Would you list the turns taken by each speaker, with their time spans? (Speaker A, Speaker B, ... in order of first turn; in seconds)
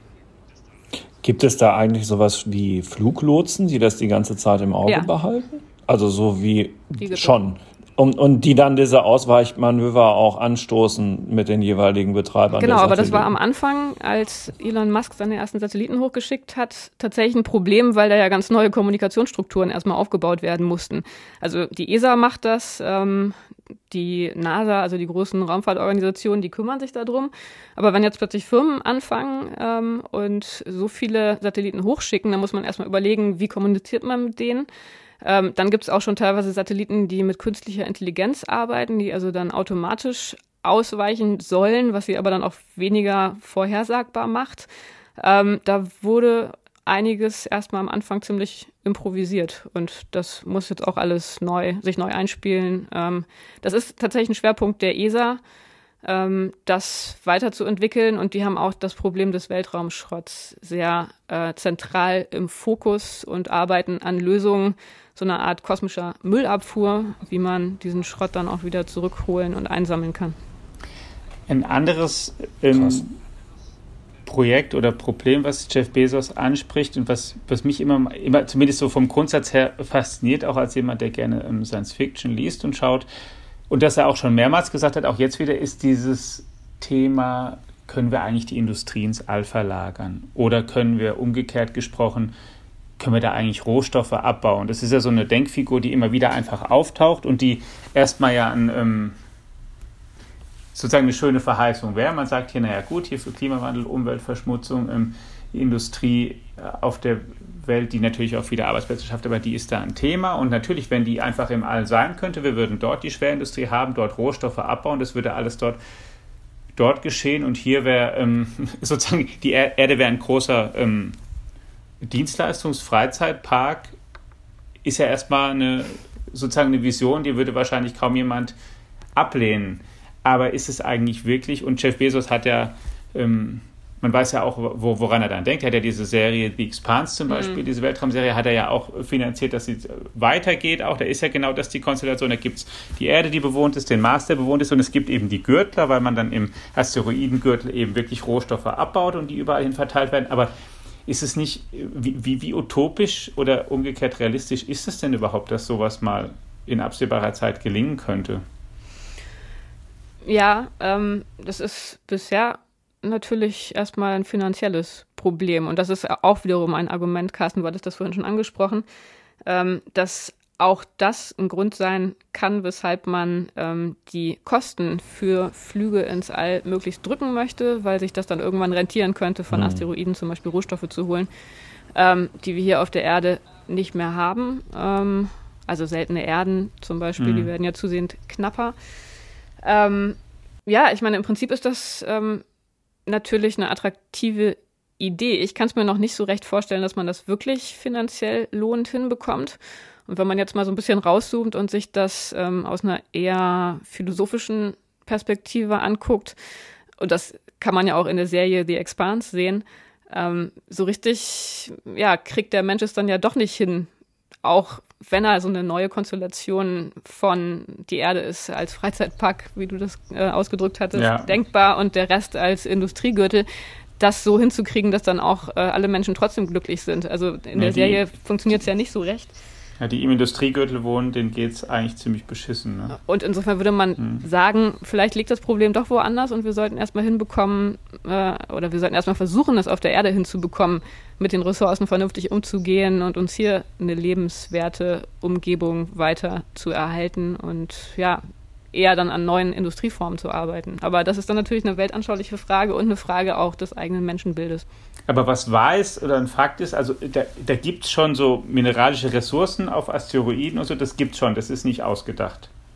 Speaker A: 1.2-13.3, 179.5-179.8
Speaker B: 7.0-7.3, 12.6-23.4, 23.9-34.7, 35.2-55.4, 56.0-70.3, 137.3-137.6, 160.2-168.8, 169.4-181.3, 181.9-188.8, 189.6-192.4, 193.1-206.4, 207.0-213.9, 214.4-223.5, 224.0-229.3, 233.0-254.7
Speaker C: 71.5-73.1, 74.2-83.1, 83.7-92.3, 93.0-99.2, 100.7-115.8, 116.8-121.2, 122.0-123.9, 124.8-128.5, 129.1-150.5, 151.1-158.4, 187.2-187.5, 220.9-221.3, 227.6-228.0, 229.8-233.0, 234.0-234.2, 255.1-262.5